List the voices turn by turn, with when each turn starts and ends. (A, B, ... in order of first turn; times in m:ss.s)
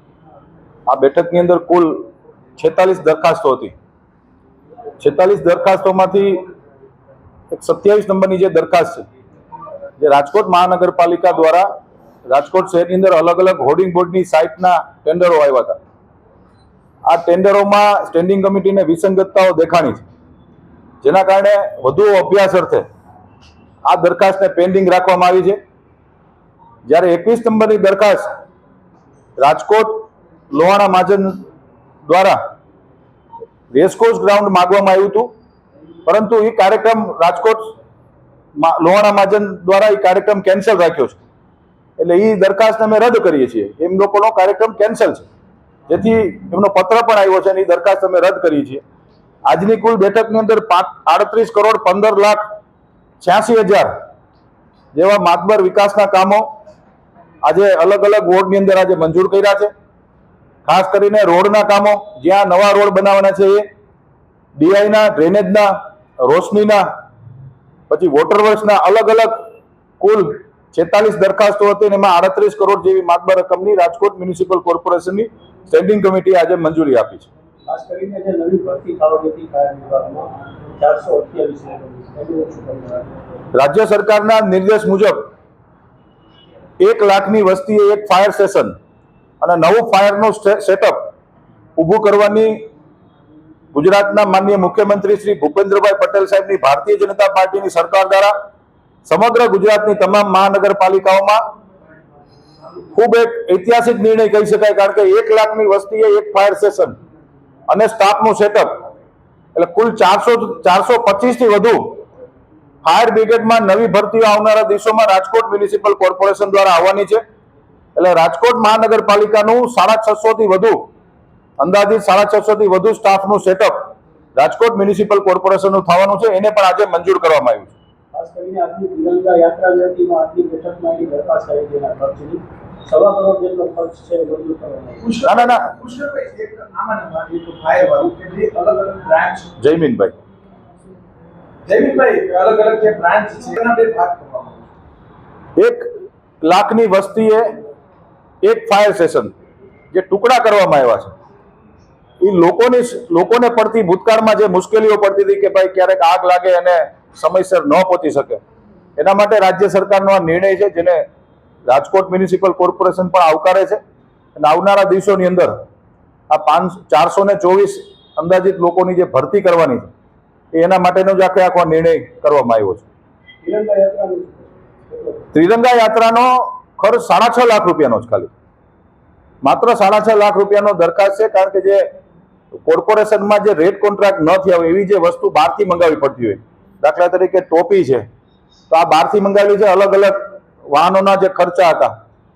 0:00.9-0:03.7 A
0:05.0-0:06.4 A
0:07.5-0:09.0 A
0:10.0-0:11.7 A
0:12.3-0:15.8 A
0:17.1-0:20.0 A
0:21.0-0:22.8 A
0:23.8-0:25.6 A
0:26.9-0:28.3 A
0:29.4-0:31.4 A
0:32.1-0:32.4 A
0:33.7-0:35.3 A
0:36.1-0:37.7 A
0:38.6-0:41.2 A
0:42.0-0:45.3 A
0:45.9-0:48.8 A
0:49.5-0:52.4 A
0:53.2-0:53.9 A
0:54.9-0:56.4 A
0:57.4-0:59.7 A
1:00.7-1:03.6 A
1:04.6-1:06.8 A
1:07.9-1:09.4 A
1:10.0-1:17.3 A
1:17.7-1:23.2 B
1:23.5-1:25.3 A
1:26.8-1:28.8 A
1:29.4-1:31.1 A
1:31.8-1:32.7 A
1:33.7-1:38.3 A
1:39.1-1:41.4 A
1:42.9-1:47.0 A
1:47.7-1:48.8 A
1:49.6-1:52.0 A
1:52.8-1:57.2 A
1:58.0-2:00.9 A
2:01.6-2:07.7 A
2:08.1-2:15.1 B
2:15.0-2:19.5 C
2:15.2-2:15.7 A
2:19.6-2:20.1 A
2:21.7-2:24.6 C
2:25.6-2:25.9 A
2:26.4-2:27.5 A
2:28.4-2:29.3 A
2:29.9-2:31.1 A
2:32.2-2:38.4 A
2:39.0-2:41.0 A
2:41.7-2:43.8 A
2:44.4-2:45.5 A
2:46.3-2:49.9 A
2:50.5-2:52.9 A
2:53.4-2:55.3 B
2:55.3-2:58.3 A
2:59.4-3:01.8 A
3:02.6-3:08.0 A
3:08.7-3:11.9 A